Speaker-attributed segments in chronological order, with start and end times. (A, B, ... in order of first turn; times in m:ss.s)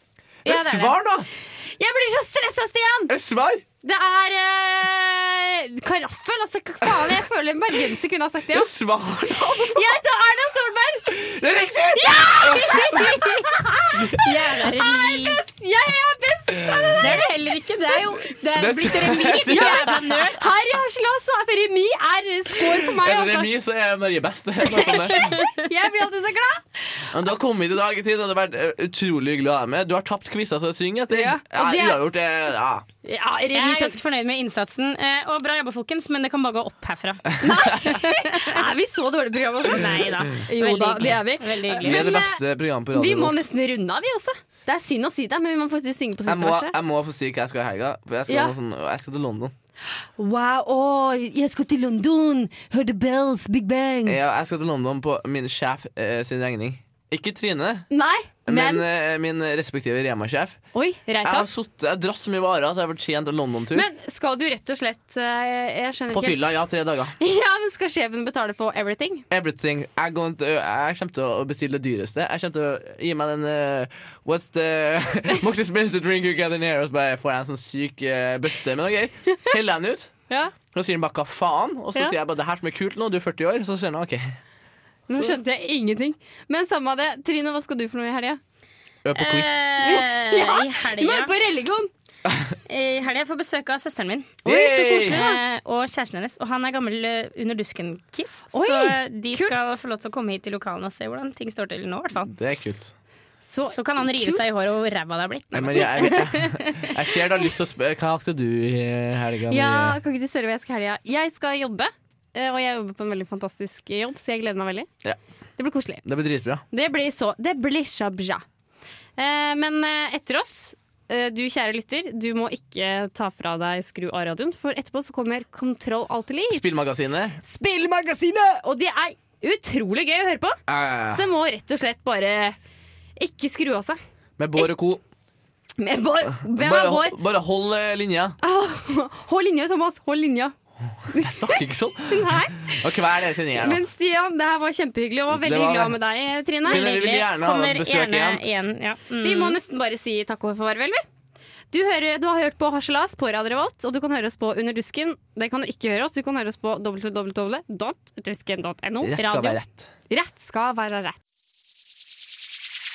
0:00.4-0:01.3 A
0:00.4-0:03.1 B
0:03.1-0:03.6 A
0:03.8-0:08.7 B
0:06.8-0:07.2 A
0:08.5-0:10.0 A
0:09.7-0:11.1 B
0:11.0-0:14.2 A
0:11.9-0:17.3 B
0:14.2-0:15.4 C
0:16.5-0:17.0 A
0:17.0-0:20.4 C
0:18.5-0:20.2 A
0:19.4-0:23.5 B
0:22.6-0:25.4 A
0:24.8-0:27.1 B
0:27.1-0:32.8 A
0:31.1-0:32.0 B
0:33.0-0:34.0 B
0:33.5-0:38.6 C
0:37.4-0:46.7 B
0:39.7-0:42.1 C
0:41.8-0:43.4 A
0:46.2-0:49.5 A
0:48.3-0:48.5 B
0:50.2-0:54.2 B
0:54.0-0:57.9 A
0:57.9-0:58.8 B
0:58.4-1:00.6 A
1:00.7-1:01.5 B
1:01.2-1:03.9 A
1:03.7-1:06.4 B
1:06.1-1:07.1 A
1:07.2-1:09.2 B
1:09.3-1:20.1 A
1:20.7-1:24.4 A
1:25.1-1:28.4 B
1:29.0-1:29.6 A
1:29.1-1:31.3 C
1:29.8-1:31.9 B
1:32.2-1:32.5 A
1:32.7-1:34.4 C
1:34.4-1:35.2 A
1:34.4-1:35.4 B
1:35.0-1:42.3 C
1:38.5-1:39.7 B
1:42.2-1:42.9 A
1:43.4-1:44.4 B
1:43.7-1:46.9 C
1:45.5-1:50.0 A
1:49.5-1:54.9 B
1:55.6-1:56.0 B
1:56.0-1:56.6 A
1:56.7-1:58.4 B
1:59.2-2:06.8 B
2:06.5-2:07.4 A
2:07.4-2:12.6 B
2:10.7-2:11.2 A
2:13.2-2:14.0 B
2:14.4-2:15.0 A
2:15.8-2:17.2 B
2:16.3-2:18.4 A
2:18.4-2:20.5 B
2:21.0-2:23.8 A
2:21.1-2:22.9 B
2:23.5-2:26.9 B
2:25.3-2:25.9 A
2:26.6-2:28.4 A
2:26.6-2:29.6 C
2:29.2-2:31.0 B
2:31.7-2:41.2 B
2:39.0-2:39.9 A